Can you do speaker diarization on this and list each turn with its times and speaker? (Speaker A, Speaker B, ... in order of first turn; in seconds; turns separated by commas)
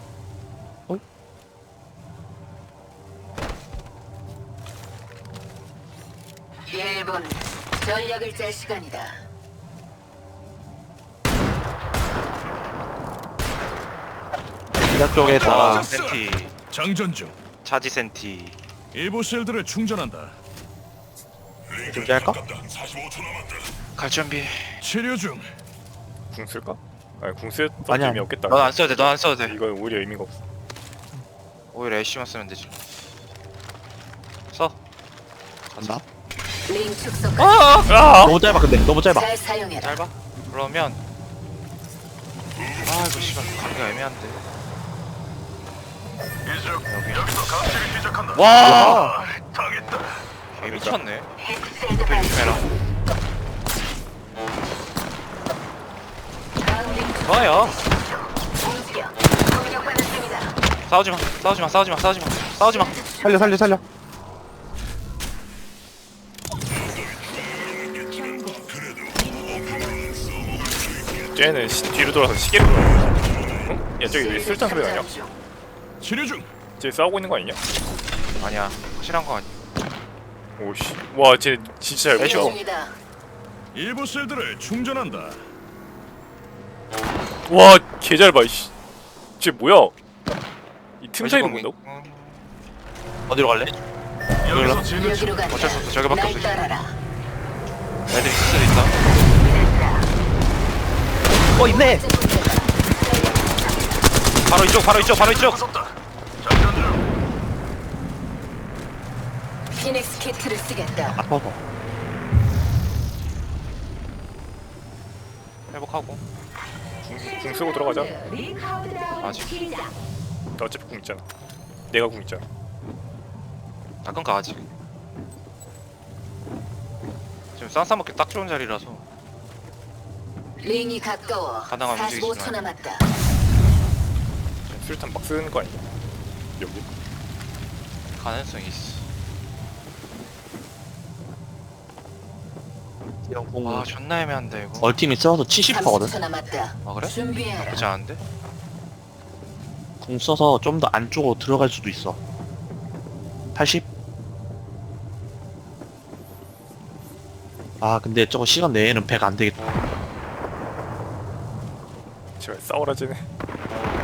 Speaker A: 6.7-9.1, Speaker B: 14.8-15.9, Speaker C: 15.2-16.6, Speaker D: 15.2-17.4, Speaker C: 17.6-18.6, Speaker D: 18.9-20.4, Speaker B: 21.8-22.4, Speaker C: 23.9-24.8, Speaker D: 24.8-25.5, Speaker E: 26.3-30.4, Speaker B: 27.9-28.3, Speaker C: 28.5-29.6, Speaker C: 31.7-32.8, Speaker C: 34.5-34.8, Speaker C: 35.7-36.0, Speaker A: 36.7-37.5, Speaker C: 37.4-37.9, Speaker E: 37.9-38.4, Speaker B: 38.2-39.3, Speaker A: 39.1-40.0, Speaker C: 39.8-41.0, Speaker C: 42.8-44.5, Speaker D: 46.5-50.2, Speaker C: 46.9-47.3, Speaker C: 48.3-49.2, Speaker B: 48.6-49.2, Speaker C: 50.5-51.3, Speaker E: 50.6-51.0, Speaker A: 51.4-52.4, Speaker C: 51.9-52.6, Speaker A: 56.6-60.5, Speaker C: 57.2-57.8, Speaker C: 60.9-63.0, Speaker A: 62.8-63.5, Speaker B: 63.2-63.8, Speaker E: 71.3-75.1, Speaker A: 74.1-75.3, Speaker D: 76.0-76.5, Speaker E: 76.8-77.6, Speaker C: 78.4-79.6, Speaker E: 80.6-82.5, Speaker C: 82.2-82.6, Speaker A: 82.2-83.0, Speaker D: 83.7-85.4, Speaker E: 87.5-88.7, Speaker E: 89.4-89.9, Speaker E: 91.0-91.7, Speaker C: 91.2-92.5, Speaker B: 93.3-93.7, Speaker D: 94.4-95.3, Speaker B: 94.5-94.8, Speaker A: 94.8-96.9, Speaker C: 95.5-96.7, Speaker C: 98.1-99.0, Speaker A: 99.1-100.1, Speaker B: 101.5-102.0, Speaker A: 101.5-104.0, Speaker C: 104.4-105.6, Speaker D: 104.9-107.0, Speaker A: 109.7-111.2, Speaker B: 111.1-111.6, Speaker C: 115.7-116.2, Speaker E: 117.0-118.2, Speaker C: 119.2-119.9, Speaker E: 120.6-121.2, Speaker E: 121.9-122.4, Speaker C: 124.0-124.7, Speaker C: 127.5-129.0, Speaker A: 130.6-133.0, Speaker C: 131.7-132.6, Speaker E: 134.7-135.8, Speaker E: 136.6-136.8, Speaker C: 138.2-139.0, Speaker B: 143.2-143.9, Speaker C: 143.6-144.9, Speaker B: 144.8-146.2, Speaker A: 145.7-147.8, Speaker C: 146.8-148.2, Speaker B: 150.0-152.2, Speaker B: 153.5-153.9, Speaker B: 157.8-159.6, Speaker E: 162.4-163.2